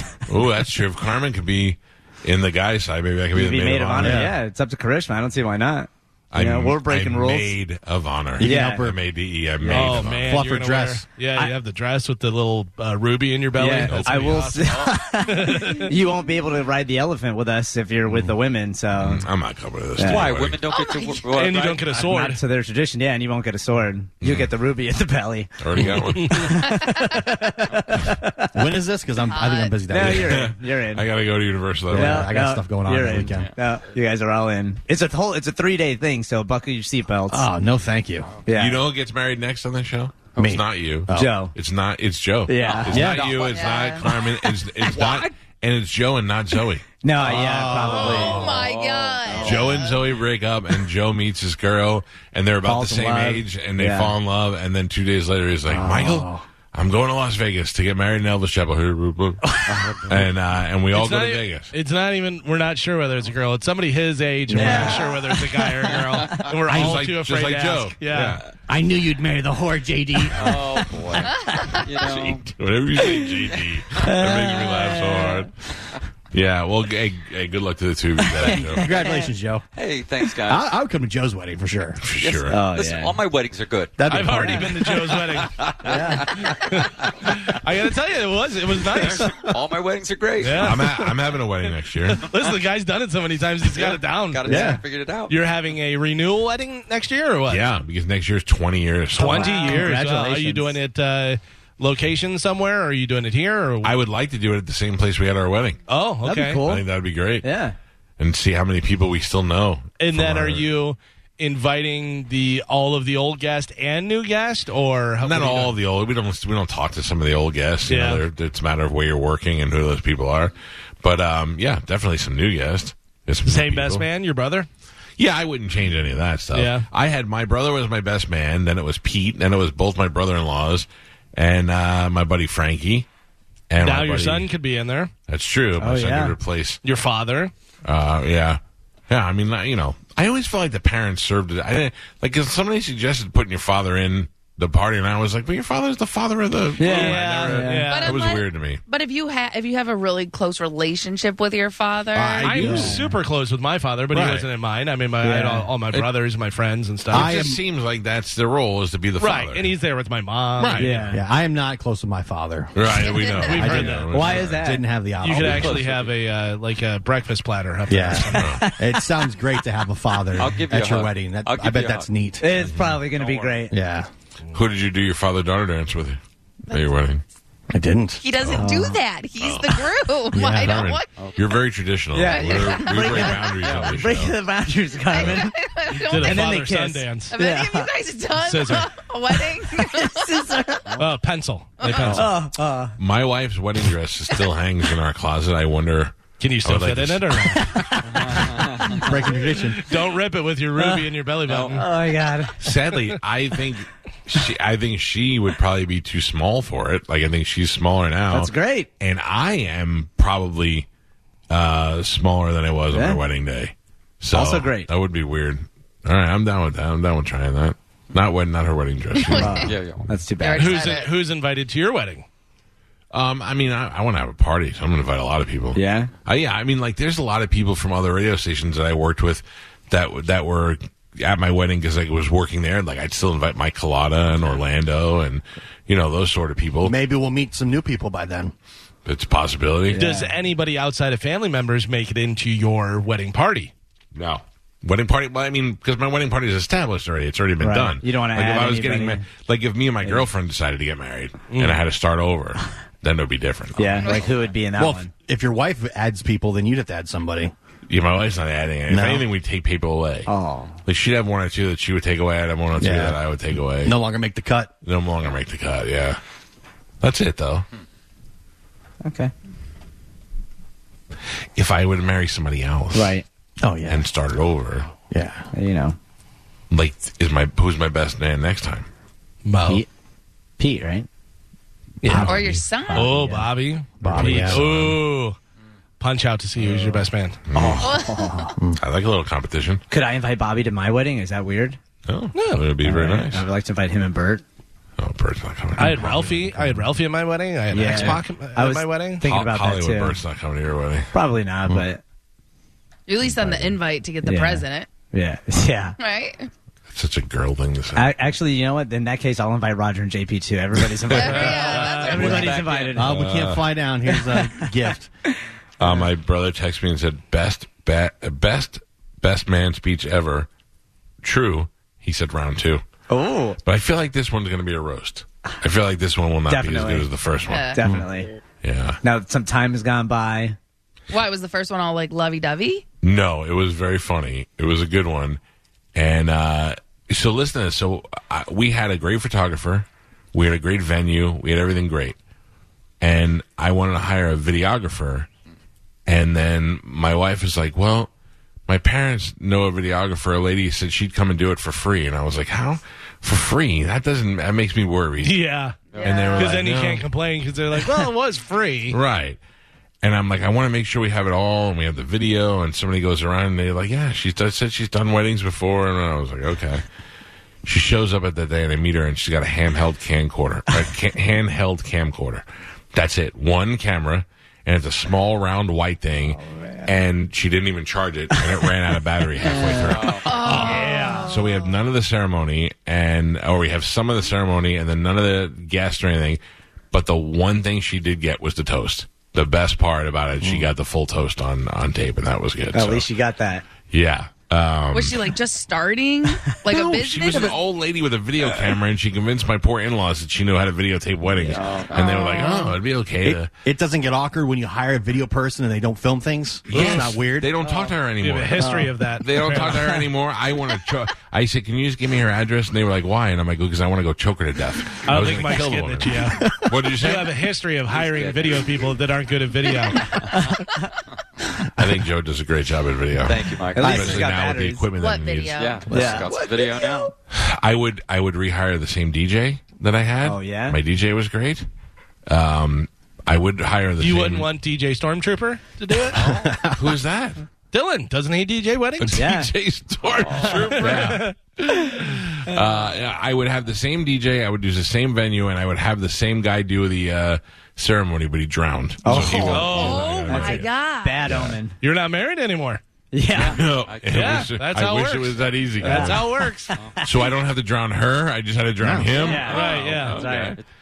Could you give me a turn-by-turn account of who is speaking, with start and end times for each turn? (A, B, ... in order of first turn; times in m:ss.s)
0:00.3-0:04.3 A
0:03.3-0:07.6 B
0:04.0-0:04.4 C
0:06.3-0:10.4 A
0:08.4-0:09.0 C
0:08.4-0:08.9 B
0:09.6-0:15.9 D
0:09.7-0:10.0 B
0:09.7-0:11.0 C
0:13.6-0:19.2 B
0:13.8-0:14.6 A
0:14.6-0:15.0 E
0:19.0-0:20.6 A
0:20.0-0:20.3 B
0:20.0-0:21.9 E
0:20.7-0:21.3 F
0:21.3-0:22.4 D
0:21.9-0:28.6 B
0:24.2-0:24.5 A
0:25.6-0:26.7 A
0:26.1-0:26.4 D
0:26.6-0:27.2 F
0:28.5-0:30.5 C
0:29.2-0:29.8 F
0:29.9-0:31.1 B
0:30.0-0:32.3 A
0:31.9-0:33.5 C
0:31.9-0:37.5 B
0:33.2-0:33.5 E
0:37.3-0:38.3 C
0:38.4-0:38.8 B
0:38.5-0:46.8 A
0:40.4-0:41.5 C
0:41.1-0:41.5 B
0:42.5-0:43.3 B
0:42.9-0:43.3 C
0:43.4-0:44.1 F
0:44.8-0:45.2 E
0:47.0-0:48.6 B
0:47.2-0:48.6 C
0:47.9-0:50.1 F
0:48.4-0:49.6 E
0:49.2-0:49.8 B
0:49.4-1:01.7 A
0:52.6-0:54.2 B
0:55.7-0:56.4 C
0:59.4-1:00.1 B
1:00.9-1:08.4 D
1:04.5-1:05.2 C
1:04.5-1:06.6 B
1:06.7-1:08.4 A
1:08.7-1:11.3 C
1:10.3-1:12.4 E
1:12.0-1:15.5 A
1:14.0-1:15.4 B
1:16.3-1:19.0 A
1:18.2-1:19.3 B
1:18.4-1:18.7 E
1:18.8-1:19.6 C
1:19.7-1:20.7 E
1:20.5-1:22.0 C
1:22.0-1:22.6 A
1:22.2-1:24.0 E
1:22.5-1:23.2 B
1:24.0-1:24.9 C
1:24.1-1:29.4 D
1:24.9-1:26.8 E
1:25.8-1:26.3 B
1:25.9-1:26.2 C
1:28.8-1:30.9 E
1:29.2-1:29.6 C
1:30.4-1:31.4 D
1:30.6-1:32.2 A
1:32.1-1:37.7 D
1:33.7-1:35.3 E
1:34.4-1:34.8 C
1:37.5-1:39.9 A
1:39.2-1:40.8 B
1:39.2-1:44.0 D
1:43.8-1:45.8 A
1:45.9-1:46.6 D
1:46.2-1:46.8 B
1:46.6-1:47.5 A
1:47.4-1:47.8 B
1:48.2-1:50.6 A
1:50.0-1:55.8 D
1:55.2-2:04.1 A
1:57.9-1:58.2 D
2:03.4-2:04.7 D
2:05.2-2:13.1 A
2:06.5-2:06.9 D
2:13.7-2:14.5 A
2:13.8-2:15.1 D
2:15.3-2:16.8 A
2:15.8-2:16.4 B
2:16.8-2:17.5 D
2:17.8-2:28.8 A
2:26.8-2:27.9 B
2:26.8-2:28.2 D
2:27.9-2:32.6 F
2:32.1-2:33.1 A
2:32.4-2:37.5 D
2:32.6-2:33.0 B
2:34.1-2:34.5 C
2:35.2-2:35.7 B
2:37.1-2:37.6 C
2:37.1-2:39.7 A
2:39.2-2:41.2 D
2:40.6-2:41.1 A
2:40.8-2:41.2 B
2:41.1-2:42.7 C
2:42.8-2:44.7 A
2:42.9-2:43.6 F
2:43.4-2:44.4 D
2:43.5-2:45.8 C
2:44.1-2:44.8 B
2:45.2-2:48.5 D
2:45.4-2:46.2 E
2:47.9-2:52.5 C
2:48.3-2:49.1 B
2:48.3-2:48.6 A
2:50.4-2:52.1 E
2:52.4-2:53.8 B
2:52.7-2:53.0 A
2:53.0-2:53.7 E
2:53.7-2:54.1 C
2:54.5-2:57.2 A
2:57.7-2:58.2 C
2:58.2-3:01.2 F
2:58.4-2:58.7 A
2:58.5-2:59.0 B
2:59.4-2:59.9 A
3:00.3-3:00.8 C
3:00.6-3:04.4 A
3:02.1-3:05.6 B
3:02.2-3:03.4 F
3:03.6-3:03.9 E
3:05.1-3:06.6 F
3:06.0-3:07.3 D
3:06.2-3:07.9 B
3:07.3-3:10.6 F
3:08.4-3:08.9 D
3:09.3-3:11.1 B
3:11.0-3:12.3 D
3:11.8-3:12.2 F
3:12.0-3:13.0 B
3:13.0-3:18.4 A
3:16.4-3:18.0 D
3:18.1-3:19.1 E
3:18.9-3:19.9 C
3:19.8-3:21.9 D
3:20.8-3:21.0 B
3:21.5-3:21.8 E
3:21.7-3:22.6 B
3:22.6-3:30.9 A
3:28.3-3:28.9 B
3:31.5-3:39.7 A
3:32.9-3:33.2 B
3:34.3-3:34.9 B
3:39.1-3:39.8 F
3:39.3-3:40.9 B
3:39.6-3:40.1 E
3:40.4-3:41.1 F
3:40.6-3:42.3 D
3:43.1-3:57.0 A
3:45.8-3:46.1 B
3:56.8-3:58.5 C
3:59.0-4:00.0 A
3:59.9-4:00.3 B
4:00.0-4:03.7 D
4:04.2-4:14.2 A
4:07.6-4:09.2 B
4:11.5-4:11.8 D
4:13.8-4:15.1 B
4:14.0-4:14.4 F
4:14.8-4:17.5 C
4:17.9-4:20.3 A
4:18.9-4:19.3 C
4:20.3-4:20.8 B
4:20.9-4:24.0 A
4:22.8-4:23.2 C
4:23.8-4:24.7 C
4:24.8-4:26.2 A
4:27.0-4:27.6 A
4:29.0-4:29.3 B
4:31.6-4:33.2 A
4:32.9-4:33.2 B
4:33.6-4:34.1 C
4:33.9-4:34.9 A
4:35.1-4:35.5 C
4:35.5-4:36.0 B
4:36.7-4:38.9 A
4:39.5-4:39.8 D
4:40.6-4:41.1 B
4:42.0-4:42.6 C
4:42.0-4:43.5 B
4:42.1-4:43.2 F
4:42.9-4:45.4 D
4:44.0-4:44.6 C
4:44.0-4:44.4 B
4:44.2-4:45.0 A
4:46.0-4:47.4 D
4:46.6-4:47.0 B
4:47.5-4:48.0 A
4:47.5-4:48.6 B
4:47.8-4:48.3 F
4:48.8-4:49.8 A
4:49.9-4:51.8 B
4:52.1-4:53.5 A
4:52.3-4:52.6 D
4:52.8-4:54.4 B
4:55.0-4:56.6 A
4:55.8-4:59.2 D
4:57.7-5:00.2 B
4:59.2-5:01.1 A
5:01.1-5:02.0 B
5:03.1-5:04.9 F
5:03.2-5:06.0 B
5:06.0-5:06.5 F
5:06.9-5:08.1 A
5:08.0-5:13.2 B
5:10.8-5:11.6 A
5:11.1-5:12.5 F
5:11.3-5:12.4 D
5:11.6-5:13.0 E
5:12.9-5:15.1 C
5:13.0-5:13.7 A
5:14.1-5:16.1 B
5:15.8-5:20.5 A
5:21.2-5:22.8 A
5:23.1-5:23.6 B
5:23.6-5:27.8 A
5:26.5-5:27.1 B
5:27.5-5:27.8 F
5:27.7-5:28.3 B
5:27.8-5:28.1 C
5:28.6-5:29.0 A
5:29.0-5:30.6 B
5:31.1-5:32.8 F
5:33.0-5:35.4 A
5:36.0-5:42.2 A
5:43.0-5:45.3 A
5:46.1-5:48.1 A
5:48.7-5:55.4 A
5:55.2-5:55.8 D
5:55.9-5:56.2 E
5:55.9-5:56.6 F
5:56.0-5:57.1 A
5:56.3-5:59.0 D
5:58.9-5:59.4 A
6:00.0-6:06.8 A
6:07.6-6:26.4 A
6:16.3-6:16.9 B
6:18.4-6:18.7 B
6:19.4-6:21.4 B
6:19.5-6:20.4 E
6:20.2-6:21.7 F
6:26.9-6:33.1 A
6:30.4-6:30.7 C
6:32.7-6:33.6 B
6:33.9-6:35.3 A
6:34.9-6:37.6 F
6:36.7-6:43.5 A
6:41.4-6:42.0 B
6:41.5-6:41.8 E
6:42.4-6:42.7 F
6:43.2-6:47.5 C
6:46.7-6:57.3 A
6:46.7-6:47.0 D
6:47.6-6:47.9 B
6:48.2-6:50.0 D
6:48.6-6:48.9 B
6:49.6-6:50.0 B
6:55.0-7:00.1 D
6:56.4-6:56.7 C
6:57.9-6:59.0 E
7:00.0-7:00.4 E
7:01.8-7:05.8 A
7:03.3-7:04.4 E
7:03.7-7:04.9 B
7:05.0-7:05.9 F
7:05.5-7:07.1 E
7:05.9-7:07.0 C
7:05.9-7:07.1 B
7:07.3-7:11.7 A
7:10.2-7:10.8 B
7:12.3-7:14.5 A
7:14.0-7:16.2 D
7:16.1-7:17.4 A
7:16.2-7:16.5 E
7:16.2-7:16.8 C
7:17.7-7:19.2 D
7:19.0-7:30.7 A
7:19.1-7:19.5 B
7:20.2-7:20.9 E
7:20.4-7:20.7 B
7:20.7-7:21.4 D
7:29.0-7:31.8 B
7:29.2-7:31.3 F
7:29.4-7:30.1 D
7:31.3-7:31.6 A
7:31.8-7:32.8 D
7:33.1-7:33.6 B
7:33.3-7:34.4 E
7:33.4-7:36.3 A
7:34.1-7:36.7 D
7:35.8-7:37.3 B
7:36.7-7:37.0 E
7:37.0-7:40.6 A
7:38.8-7:39.2 C
7:39.1-7:40.6 E
7:39.2-7:40.6 B
7:39.4-7:40.2 D